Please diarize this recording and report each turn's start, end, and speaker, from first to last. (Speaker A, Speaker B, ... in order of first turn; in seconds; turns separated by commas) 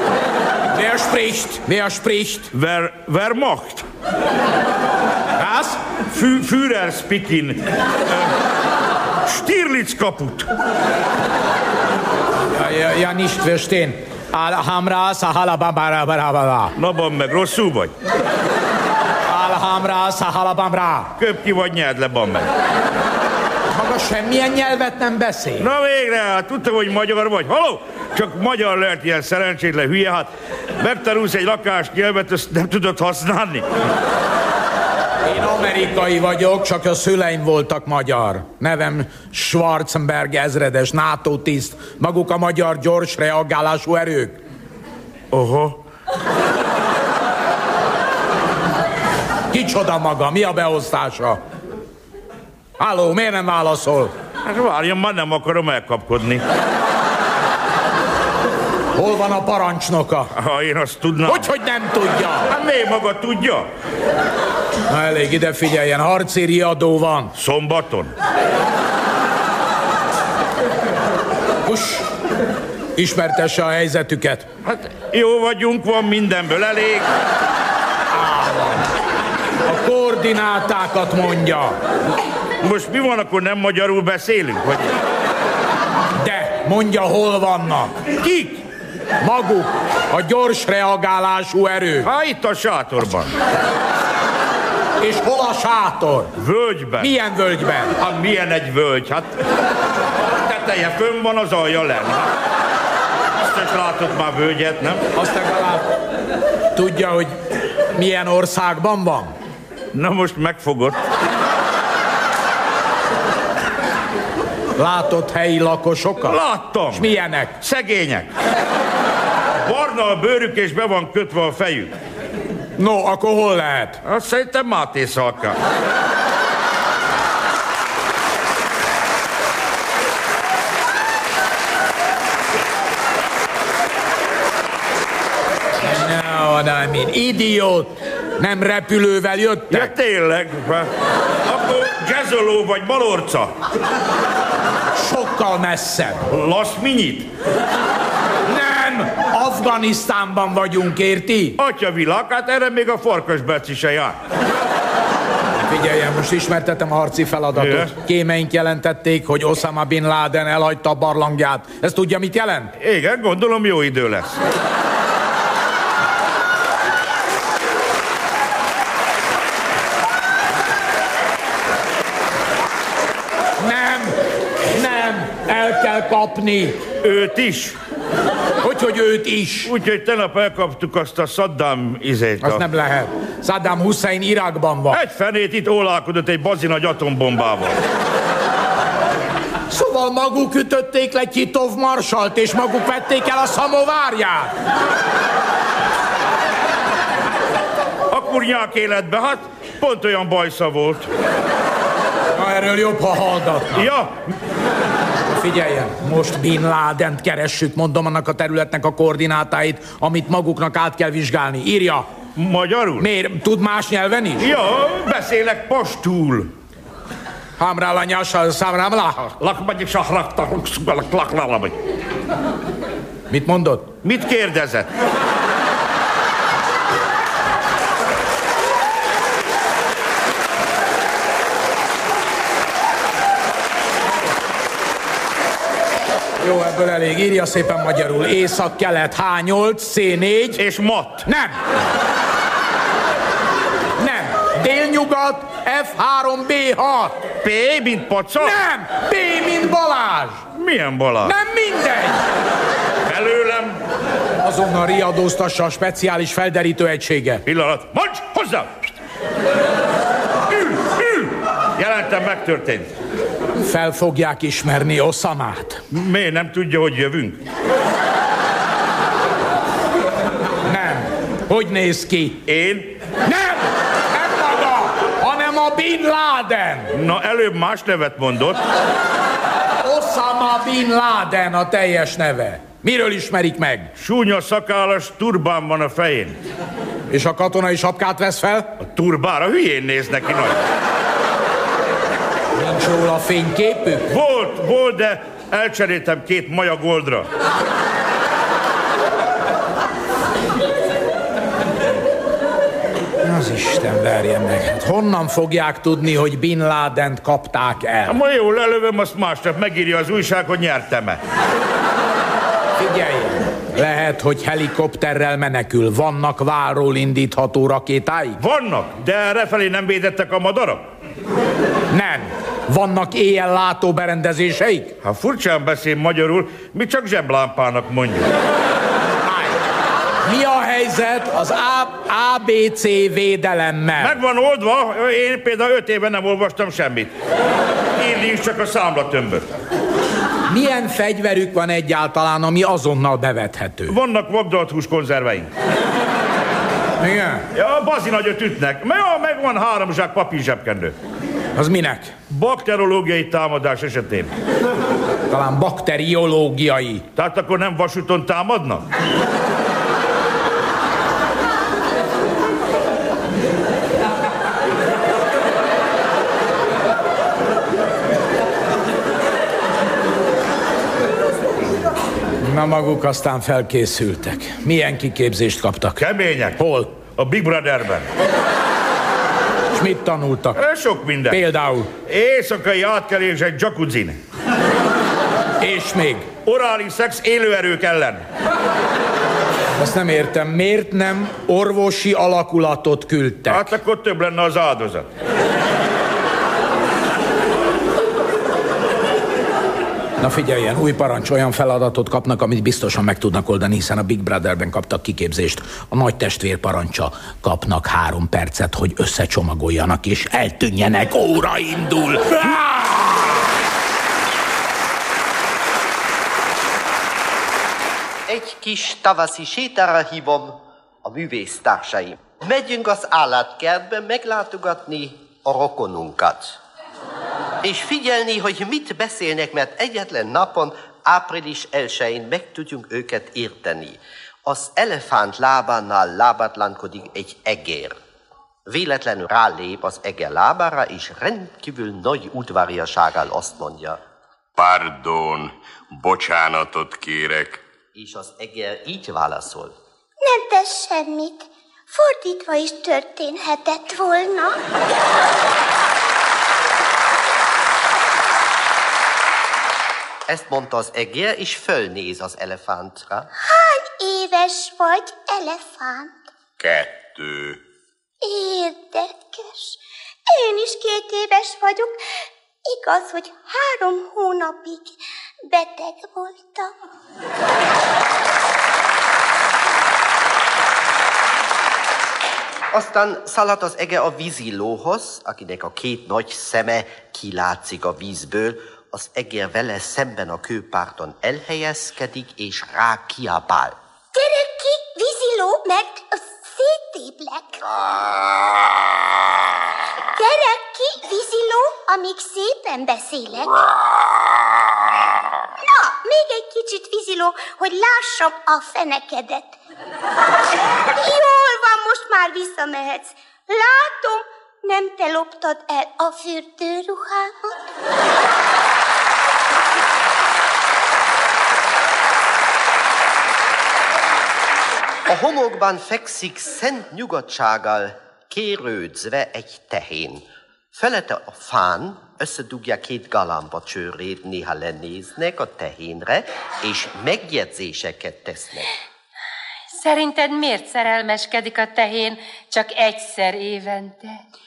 Speaker A: 0.7-2.5, Speaker B: 2.5-3.8, Speaker A: 5.4-5.8, Speaker B: 6.1-8.3, Speaker B: 9.3-10.5, Speaker A: 12.5-16.7, Speaker B: 16.8-17.9, Speaker A: 19.3-21.1, Speaker B: 21.2-22.5, Speaker A: 23.7-25.7, Speaker B: 25.6-33.6, Speaker A: 35.2-44.4, Speaker B: 45.3-45.8, Speaker A: 49.5-51.4, Speaker A: 52.8-54.1, Speaker B: 54.5-56.4, Speaker A: 59.0-60.3, Speaker B: 60.4-61.5, Speaker A: 61.3-62.5, Speaker B: 62.5-63.7, Speaker A: 64.9-67.3, Speaker B: 67.3-68.1, Speaker A: 71.7-72.0, Speaker A: 73.0-74.5, Speaker B: 74.7-77.1, Speaker A: 78.1-78.8, Speaker A: 79.7-81.8, Speaker B: 82.6-84.9, Speaker A: 86.2-88.0, Speaker B: 88.2-88.6, Speaker A: 89.2-92.1, Speaker B: 92.0-93.3, Speaker A: 95.0-96.3, Speaker B: 96.4-97.1, Speaker A: 97.0-98.0, Speaker B: 98.0-99.3, Speaker B: 100.4-102.3, Speaker B: 103.4-105.0, Speaker A: 105.1-105.9, Speaker A: 106.7-107.3, Speaker A: 108.0-109.3, Speaker B: 109.9-111.0, Speaker A: 114.8-116.4, Speaker B: 116.2-118.3, Speaker A: 116.9-117.6, Speaker B: 119.6-121.9, Speaker A: 122.8-124.0, Speaker B: 124.0-125.6, Speaker A: 135.8-139.9, Speaker B: 139.7-140.9, Speaker B: 141.4-143.5, Speaker A: 145.0-146.2, Speaker B: 146.3-147.3, Speaker A: 148.5-151.6, Speaker B: 151.6-154.1, Speaker A: 155.6-162.7, Speaker B: 157.6-157.9, Speaker B: 162.8-164.3, Speaker A: 173.6-174.2, Speaker A: 174.7-176.8, Speaker B: 177.0-177.8, Speaker A: 178.6-179.7, Speaker B: 179.6-182.6, Speaker A: 182.4-185.0, Speaker B: 184.9-187.7, Speaker A: 189.7-194.5, Speaker B: 198.1-201.1, Speaker A: 202.4-203.9, Speaker B: 203.7-204.1, Speaker A: 205.4-212.1, Speaker B: 212.3-213.1, Speaker A: 213.0-214.5, Speaker B: 214.4-216.5, Speaker A: 217.6-219.2, Speaker B: 219.2-221.7, Speaker A: 223.3-223.9, Speaker B: 224.0-224.9, Speaker A: 236.4-240.6, Speaker B: 240.6-241.3, Speaker A: 241.2-241.6, Speaker A: 244.0-247.2, Speaker B: 247.4-248.6, Speaker A: 248.4-250.4, Speaker B: 250.5-251.3, Speaker A: 251.2-252.2, Speaker B: 253.1-253.8, Speaker A: 254.4-257.4, Speaker B: 257.4-258.7, Speaker B: 260.5-262.9, Speaker A: 263.6-265.8, Speaker B: 265.9-267.4, Speaker A: 270.6-272.4, Speaker B: 272.4-272.9, Speaker A: 273.2-276.9, Speaker B: 276.9-278.6, Speaker A: 279.8-283.9, Speaker B: 284.0-286.4, Speaker A: 287.1-288.7, Speaker B: 288.8-290.6, Speaker A: 292.6-294.1, Speaker B: 294.1-297.3, Speaker A: 303.2-308.2, Speaker B: 308.1-311.2, Speaker A: 312.8-318.4, Speaker B: 318.4-320.9, Speaker A: 321.9-324.9, Speaker B: 325.0-328.3, Speaker A: 329.2-329.6, Speaker A: 330.2-334.2, Speaker B: 334.0-337.1, Speaker B: 338.0-339.4, Speaker A: 340.5-343.9, Speaker B: 343.9-345.5, Speaker A: 347.0-347.4, Speaker B: 347.5-350.9, Speaker A: 351.6-352.1, Speaker B: 352.3-354.3, Speaker A: 355.3-357.0, Speaker B: 357.1-358.8, Speaker A: 372.4-376.0, Speaker B: 376.0-378.1, Speaker A: 376.6-377.0, Speaker A: 379.7-380.6, Speaker B: 380.5-381.4, Speaker A: 381.3-381.9, Speaker B: 382.1-384.2, Speaker A: 385.6-386.3, Speaker B: 386.4-388.2, Speaker A: 389.8-393.7, Speaker B: 393.4-395.1, Speaker A: 400.2-413.3, Speaker C: 418.3-426.6, Speaker C: 427.6-438.0, Speaker C: 438.7-444.0, Speaker D: 444.6-447.6, Speaker C: 447.9-449.7, Speaker E: 450.2-454.6, Speaker C: 460.3-463.3, Speaker E: 463.4-466.3, Speaker D: 466.6-467.6, Speaker E: 468.2-472.0, Speaker E: 472.7-476.7, Speaker C: 482.7-493.8, Speaker E: 494.1-497.6, Speaker E: 500.1-503.6, Speaker E: 505.6-509.6, Speaker E: 510.9-517.7, Speaker C: 525.1-538.7, Speaker F: 539.8-544.2